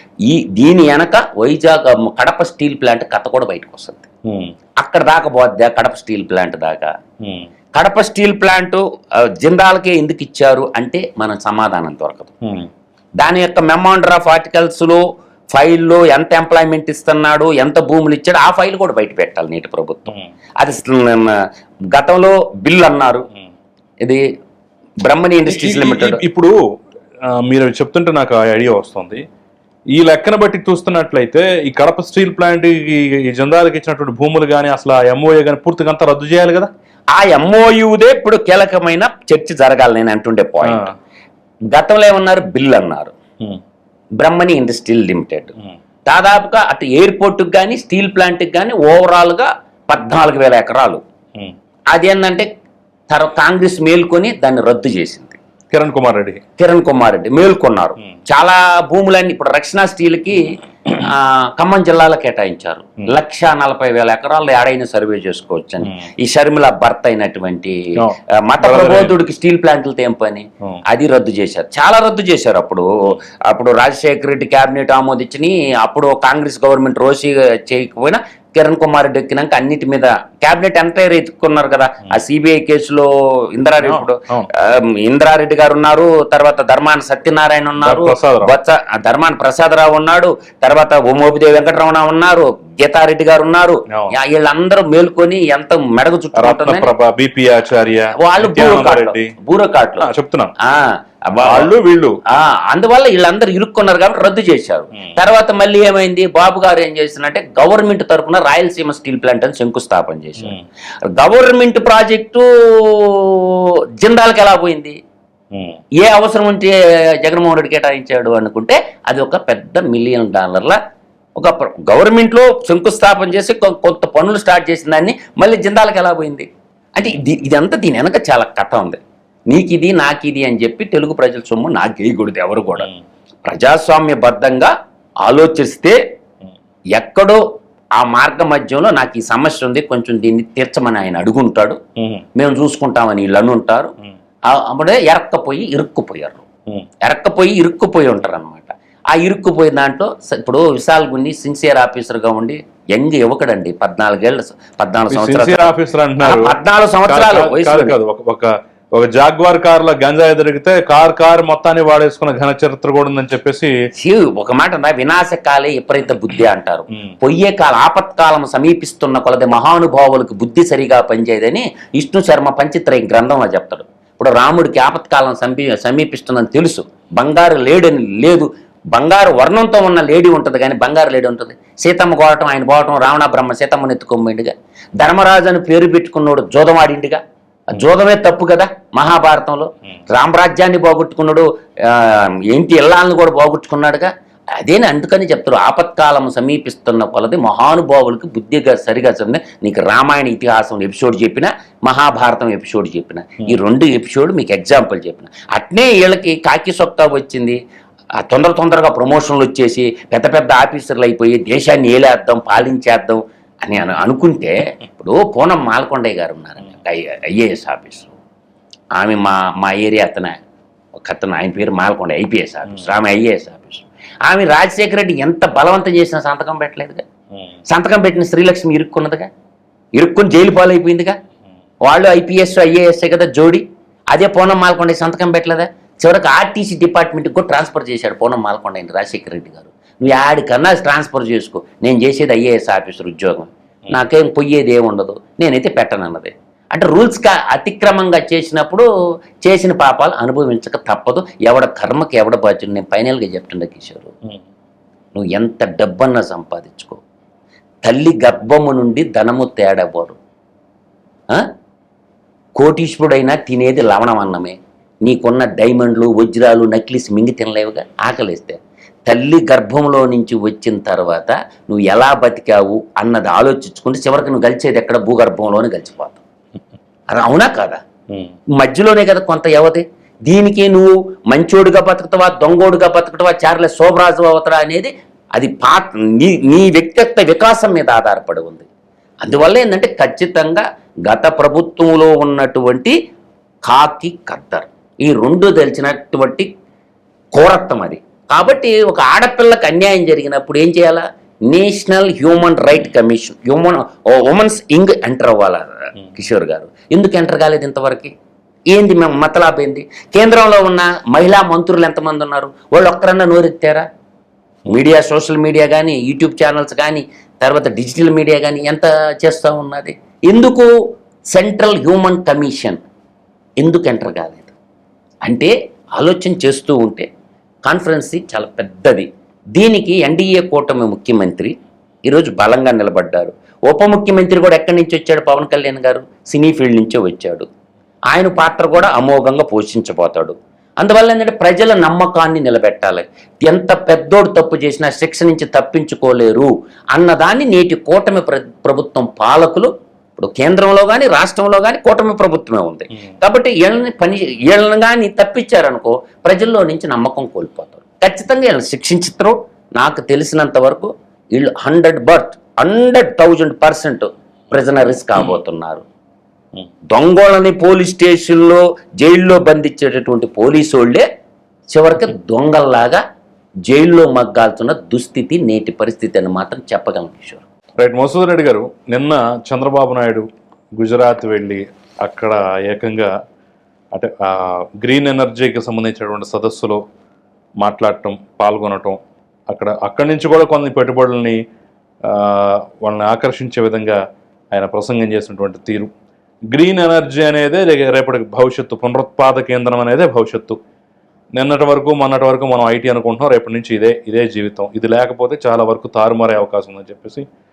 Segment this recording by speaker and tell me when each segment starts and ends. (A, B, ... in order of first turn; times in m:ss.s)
0:00.2-0:04.0 A
0:04.2-0:04.5 B
0:04.8-0:06.9 A
0:07.2-0:07.5 B
0:07.7-0:12.3 A
0:12.4-0:12.7 B
0:13.2-0:23.3 A
0:25.0-0:26.2 A
0:25.4-0:26.6 B
0:27.3-0:29.2 B
0:29.9-0:36.7 B
0:37.1-0:40.9 A
0:40.6-0:40.9 B
0:41.7-0:43.1 A
0:44.2-0:45.5 A
0:46.1-0:51.0 A
0:51.9-0:52.5 A
0:53.1-0:55.4 A
0:55.7-0:56.4 B
0:56.6-1:07.8 A
1:05.8-1:06.1 B
1:08.0-1:09.1 B
1:08.3-1:36.9 A
1:23.8-1:24.5 B
1:27.8-1:28.5 B
1:33.9-1:34.1 B
1:36.3-1:39.3 B
1:38.2-1:41.7 A
1:40.0-1:40.5 B
1:41.4-1:42.2 B
1:42.2-1:55.0 A
1:55.5-1:55.8 B
1:55.9-2:00.8 A
2:01.4-2:12.9 A
2:13.4-2:14.7 A
2:15.2-2:16.0 A
2:16.9-2:17.4 A
2:18.0-2:21.8 A
2:22.0-2:22.2 B
2:22.3-2:23.9 A
2:24.5-2:26.4 A
2:27.0-2:38.0 A
2:35.1-2:43.7 B
2:44.0-3:27.6 A
3:28.2-3:38.1 A
3:39.0-3:40.4 A
3:41.0-3:47.0 A
3:47.7-3:49.3 A
3:50.0-3:51.2 A
3:51.8-4:08.8 A
4:09.4-4:14.1 A
4:15.1-4:17.0 A
4:17.8-4:20.2 A
4:22.6-4:36.2 A
4:37.1-4:37.8 A
4:38.5-4:48.6 A
4:49.2-4:52.9 A
4:53.6-4:56.5 A
4:57.3-5:08.1 A
5:08.7-5:13.9 A
5:14.7-5:20.7 A
5:21.3-5:22.8 A
5:23.6-5:24.5 A
5:25.2-5:27.1 A
5:27.6-5:31.5 A
5:32.1-5:37.5 A
5:38.1-6:05.8 A
6:06.9-6:11.0 A
6:11.7-6:13.0 A
6:13.7-6:17.4 A
6:17.8-6:20.3 B
6:20.8-6:23.1 B
6:23.9-6:26.8 B
6:27.6-6:29.0 B
6:29.5-6:31.4 B
6:32.0-6:34.0 B
6:34.5-6:35.9 B
6:36.5-6:40.6 B
6:41.4-6:47.2 B